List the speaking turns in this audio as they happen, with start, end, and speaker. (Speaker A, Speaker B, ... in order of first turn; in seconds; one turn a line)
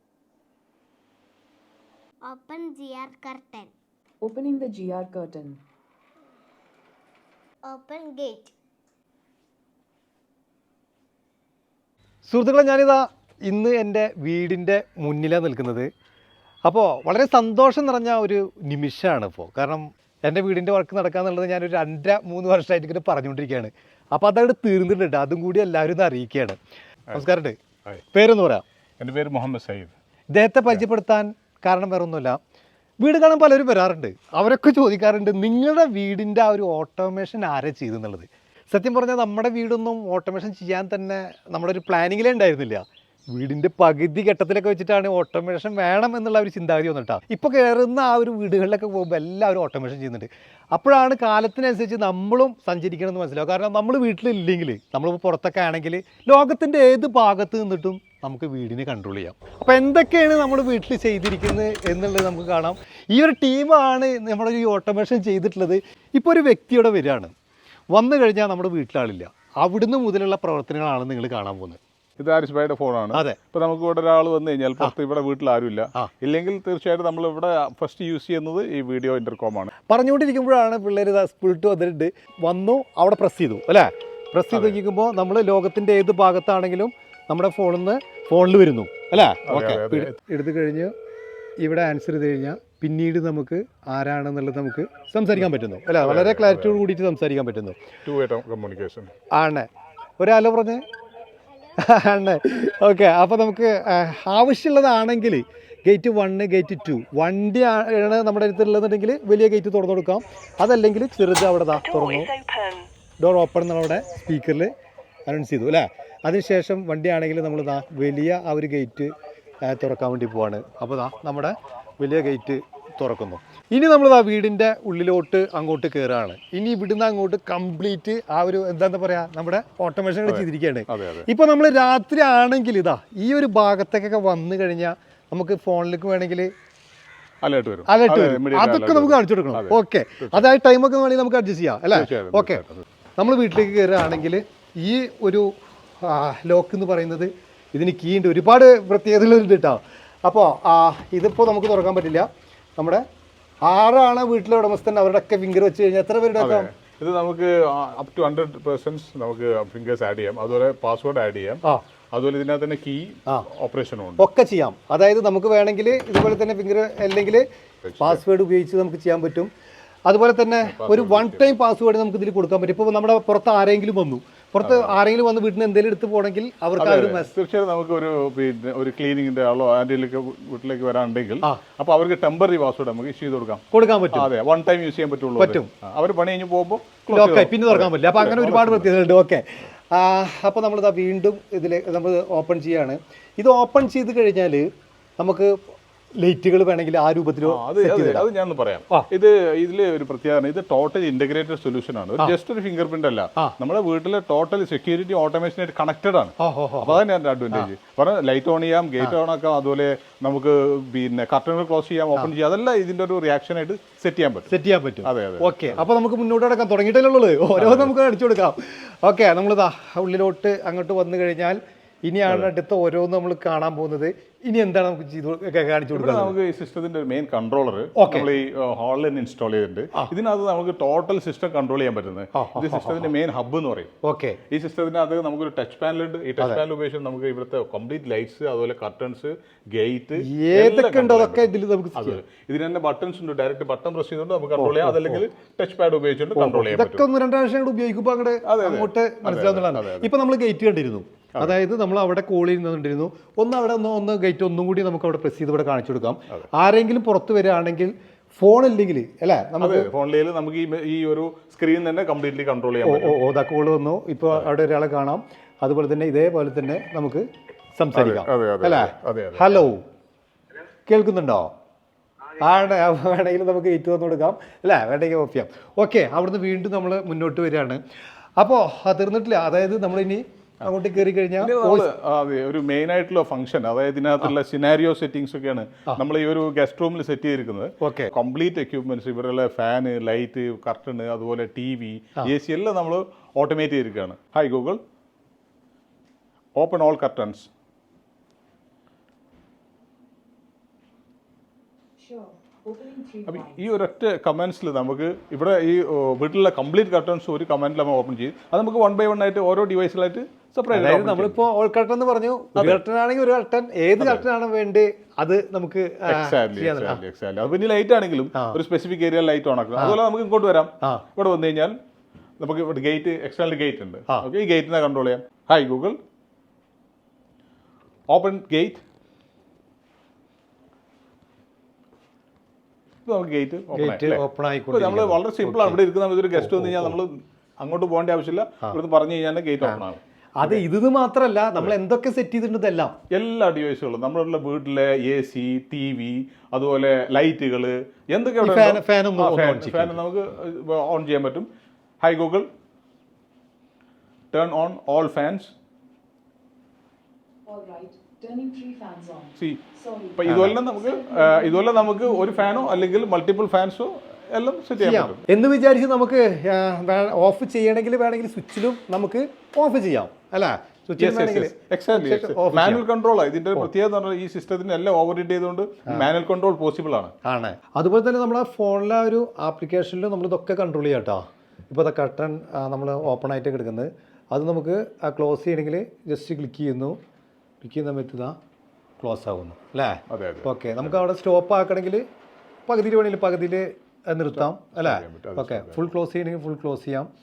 Speaker A: 2.2-3.7
Speaker B: 4.2-5.6
Speaker A: 7.6-8.6
Speaker C: 12.3-15.9
Speaker C: 16.7-26.6
Speaker C: 27.1-27.6
Speaker C: 28.1-28.6
Speaker D: 29.0-29.9
Speaker C: 30.3-32.4
Speaker C: 33.0-67.3
Speaker C: 67.9-71.8
Speaker D: 72.2-79.7
Speaker C: 73.1-73.4
Speaker C: 79.9-90.9
Speaker D: 84.5-84.8
Speaker D: 89.1-90.2
Speaker C: 91.6-97.8
Speaker D: 96.0-96.8
Speaker D: 98.0-99.1
Speaker C: 99.3-99.7
Speaker C: 100.2-100.8
Speaker C: 101.8-112.3
Speaker C: 113.2-114.7
Speaker C: 115.3-119.1
Speaker C: 119.6-136.5
Speaker D: 130.3-131.3
Speaker D: 137.4-140.5
Speaker C: 137.9-142.6
Speaker D: 141.9-142.8
Speaker C: 143.2-145.5
Speaker C: 146.0-153.0
Speaker C: 153.7-156.7
Speaker D: 156.4-161.6
Speaker D: 162.1-164.3
Speaker C: 164.2-167.5
Speaker D: 167.9-168.2
Speaker C: 168.0-169.5
Speaker C: 170.1-177.3
Speaker D: 170.7-171.5
Speaker D: 174.6-174.9
Speaker D: 176.8-188.9
Speaker C: 183.7-184.3
Speaker C: 185.4-185.7
Speaker C: 187.1-194.6
Speaker C: 195.2-195.5
Speaker C: 196.2-198.2
Speaker D: 197.5-214.5
Speaker C: 206.4-207.7
Speaker C: 214.5-226.3
Speaker D: 215.1-215.8
Speaker D: 217.6-217.9
Speaker D: 225.9-233.9
Speaker C: 227.9-228.3
Speaker C: 232.3-233.1
Speaker C: 234.0-234.4
Speaker D: 234.5-247.1
Speaker C: 240.2-242.2
Speaker C: 244.6-245.2
Speaker C: 246.3-259.9
Speaker D: 248.5-250.1
Speaker D: 259.6-263.2
Speaker C: 262.8-267.2
Speaker C: 267.8-269.8
Speaker D: 267.9-269.6
Speaker C: 270.9-271.5
Speaker C: 272.4-277.8
Speaker C: 278.4-281.9
Speaker D: 281.4-294.8
Speaker C: 287.8-288.1
Speaker D: 296.6-297.5
Speaker B: 302.0-303.6
Speaker D: 303.3-311.4
Speaker C: 310.7-317.0
Speaker D: 314.0-314.2
Speaker D: 316.1-321.7
Speaker C: 318.3-318.6
Speaker C: 320.8-321.1
Speaker D: 322.4-326.0
Speaker D: 328.1-328.8
Speaker D: 333.1-340.6
Speaker C: 333.7-335.8
Speaker C: 336.3-337.0
Speaker C: 340.4-342.9
Speaker D: 343.1-351.5
Speaker C: 348.4-350.0
Speaker D: 352.0-352.5
Speaker D: 354.3-355.5
Speaker B: 357.5-362.9
Speaker D: 360.2-365.2
Speaker C: 360.3-360.6
Speaker C: 364.8-372.9
Speaker D: 371.0-377.1
Speaker C: 377.2-387.0
Speaker C: 387.6-388.4
Speaker C: 389.0-392.0
Speaker D: 390.1-391.0
Speaker C: 392.7-397.1
Speaker D: 394.4-395.8